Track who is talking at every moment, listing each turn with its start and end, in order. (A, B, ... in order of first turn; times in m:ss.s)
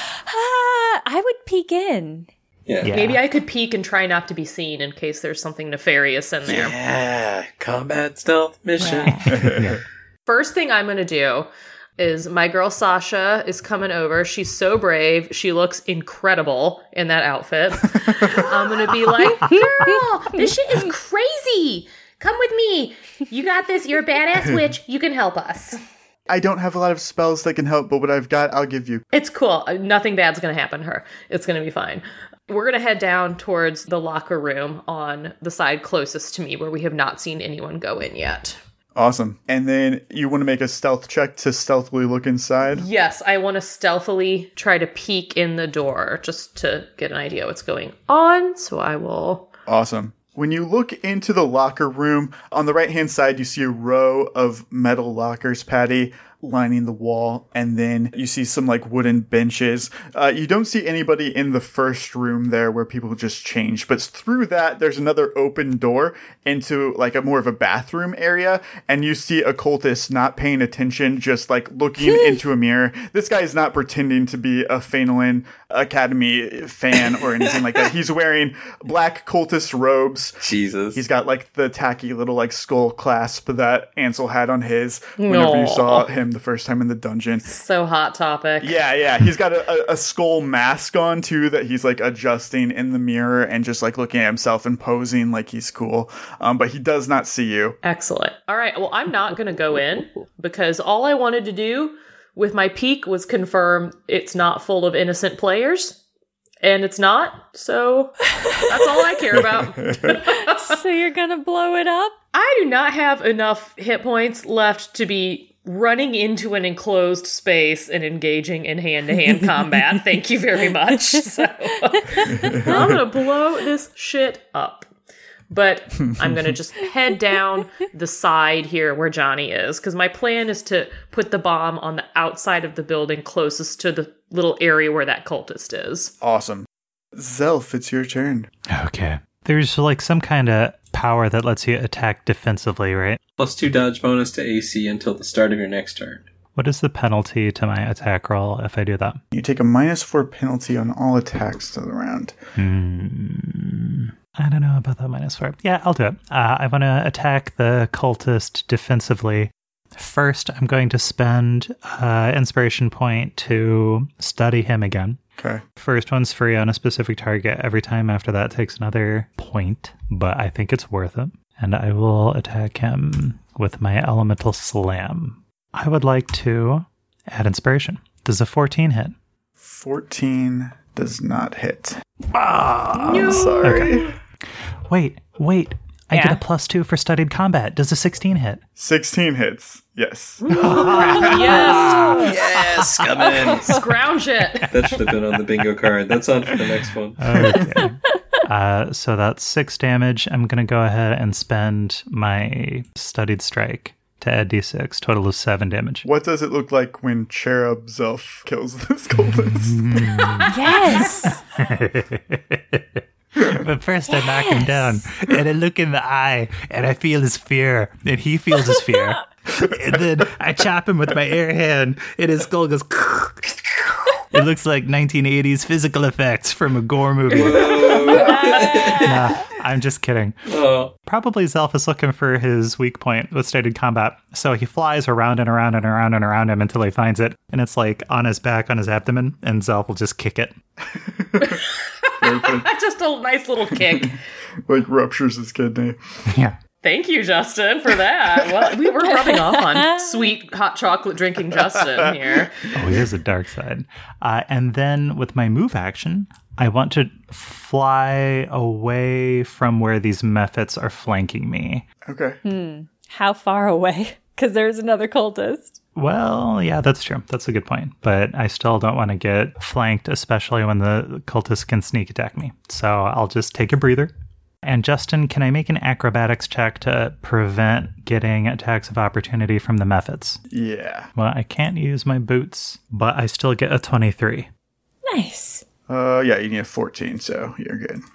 0:00.3-0:02.3 A
0:02.6-0:03.0 B
0:02.8-0:03.2 C
0:02.9-0:06.8 D
0:06.4-0:09.5 B
0:08.8-0:09.4 A
0:09.4-0:09.7 E
0:09.4-0:09.8 C
0:10.2-0:25.8 D
0:26.3-0:29.0 E
0:29.1-0:38.6 D
0:38.9-0:42.8 E
0:42.7-0:49.5 D
0:49.7-1:20.4 E
1:12.1-1:12.4 A
1:20.4-1:21.0 B
1:20.9-1:27.5 E
1:25.2-1:26.1 D
1:27.5-1:28.8 D
1:28.6-1:37.8 E
1:37.8-1:46.0 D
1:46.6-1:50.7 D
1:49.6-1:50.2 E
1:50.3-1:52.2 A
1:52.3-2:04.9 D
2:01.9-2:02.7 A
2:02.3-2:03.0 E
2:05.5-2:16.1 D
2:16.2-2:18.5 E
2:18.7-2:23.2 C
2:23.4-2:26.3 B
2:26.5-2:29.2 C
2:29.3-2:32.4 E
2:32.6-2:45.2 C
2:45.4-2:45.6 E
2:45.8-2:59.1 C
2:59.6-3:02.0 E
3:02.3-3:03.9 C
3:03.0-3:04.0 D
3:03.1-3:04.1 E
3:04.9-3:08.6 C
3:06.1-3:06.4 A
3:08.8-3:11.0 E
3:10.5-3:12.3 D
3:10.5-3:13.3 C
3:11.8-3:13.8 B
3:11.9-3:12.3 A
3:13.6-3:14.7 D
3:14.7-3:17.2 B
3:15.0-3:15.4 C
3:17.2-3:26.1 C
3:26.0-3:30.4 E
3:29.4-3:30.5 C
3:30.5-3:31.4 A
3:31.6-3:43.6 C
3:34.1-3:35.0 A
3:44.3-3:48.0 C
3:47.3-3:49.3 B
3:48.1-3:49.4 A
3:49.0-3:50.4 C
3:50.5-3:50.9 B
3:51.0-4:00.5 C
4:00.8-4:01.6 E
4:01.4-4:04.2 D
4:02.2-4:02.7 E
4:03.8-4:04.1 E
4:04.6-4:06.0 E
4:06.3-4:06.6 C
4:06.8-4:12.6 D
4:09.0-4:10.2 A
4:11.6-4:12.1 E
4:12.7-4:21.8 C
4:22.0-4:22.4 E
4:22.4-4:25.8 A
4:25.9-4:34.1 C
4:34.6-4:40.4 C
4:40.5-4:41.1 E
4:41.1-4:44.5 C
4:45.1-4:45.6 A
4:45.9-4:48.0 E